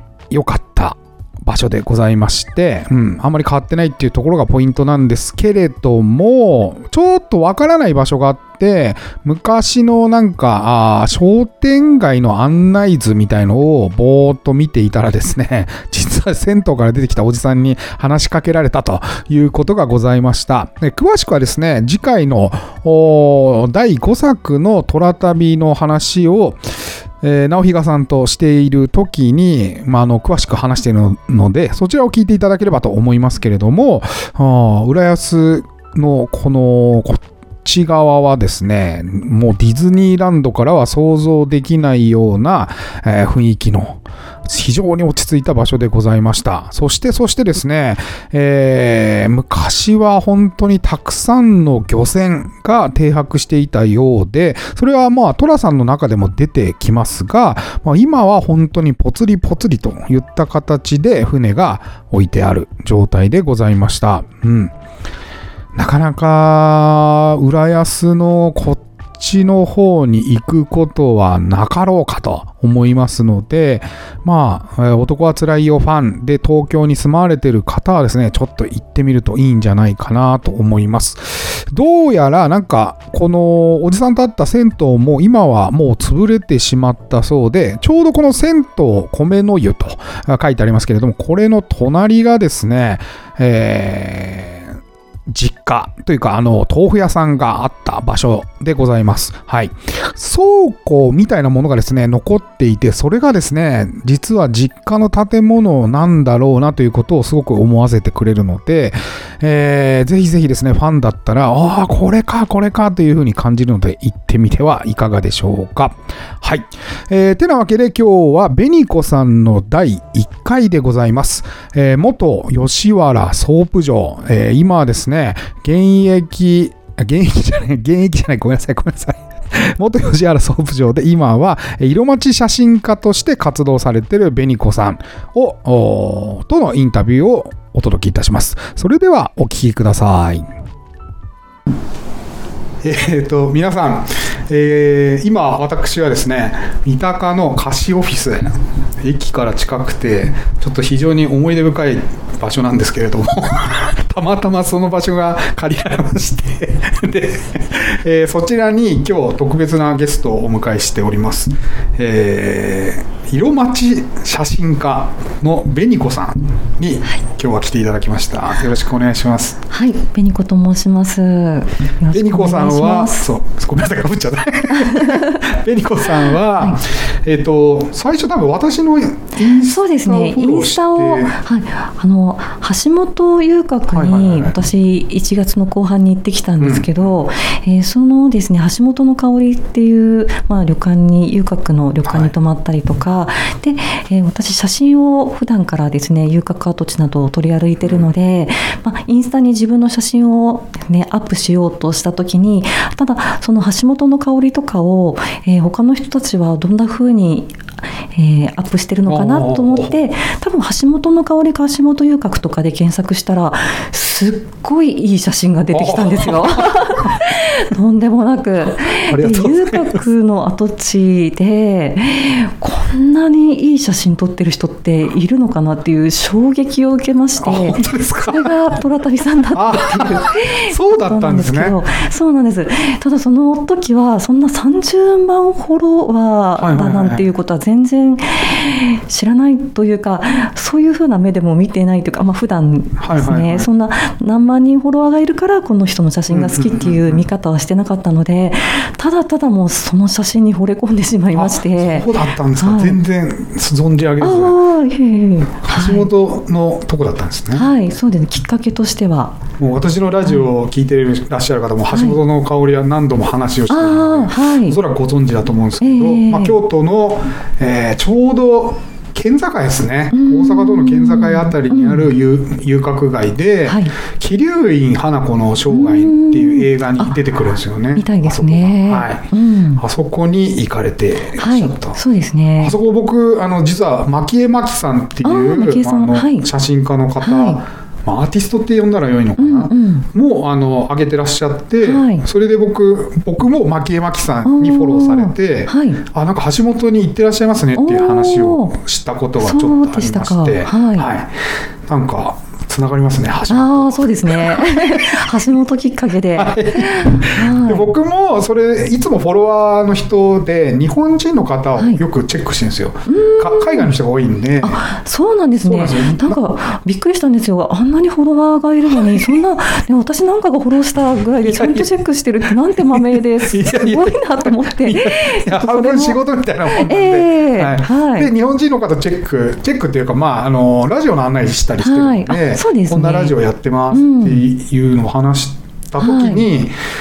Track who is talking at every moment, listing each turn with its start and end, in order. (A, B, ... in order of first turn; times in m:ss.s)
0:00.3-0:26.6 A
0:27.2-1:04.7 A
1:05.8-1:34.8 A
1:35.3-2:20.5 A
2:22.8-2:49.6 A
2:49.7-2:53.3 B
2:52.1-3:01.4 A
2:54.7-2:55.4 B
2:59.4-3:27.6 B
3:03.9-3:04.6 A
3:06.6-3:07.1 A
3:12.0-3:12.3 A
3:17.8-3:18.1 A
3:28.1-4:13.0 B
3:29.1-3:30.0 A
3:35.7-3:37.1 A
3:39.1-3:40.0 A
3:47.4-3:48.5 A
3:49.5-3:51.8 A
3:56.6-3:57.3 A
4:03.0-4:03.7 A
4:06.3-4:07.2 A
4:11.4-4:14.6 A
4:14.2-4:16.1 B
4:15.6-4:17.7 A
4:17.5-4:19.4 B
4:19.6-4:42.0 A
4:21.9-4:22.2 B
4:23.7-4:24.8 B
4:25.8-4:26.6 B
4:30.1-4:32.1 B
4:33.7-4:33.9 B
4:35.7-4:37.2 B
4:38.0-4:39.8 B
4:41.4-4:42.8 B
4:42.6-5:05.2 A
4:45.2-4:46.5 B
4:47.2-4:47.6 B
4:49.4-4:50.1 B
4:51.8-4:52.3 B
4:54.4-4:56.0 B
4:57.8-4:58.8 B
4:59.4-5:01.1 B
5:03.5-5:07.9 B
5:06.3-5:14.8 A
5:13.1-5:13.9 B
5:14.6-5:28.3 B
5:15.6-5:16.4 A
5:18.9-5:19.4 A
5:21.4-5:21.9 A
5:22.7-5:36.7 A
5:31.8-5:33.4 B
5:33.9-5:34.4 B
5:36.0-5:36.5 B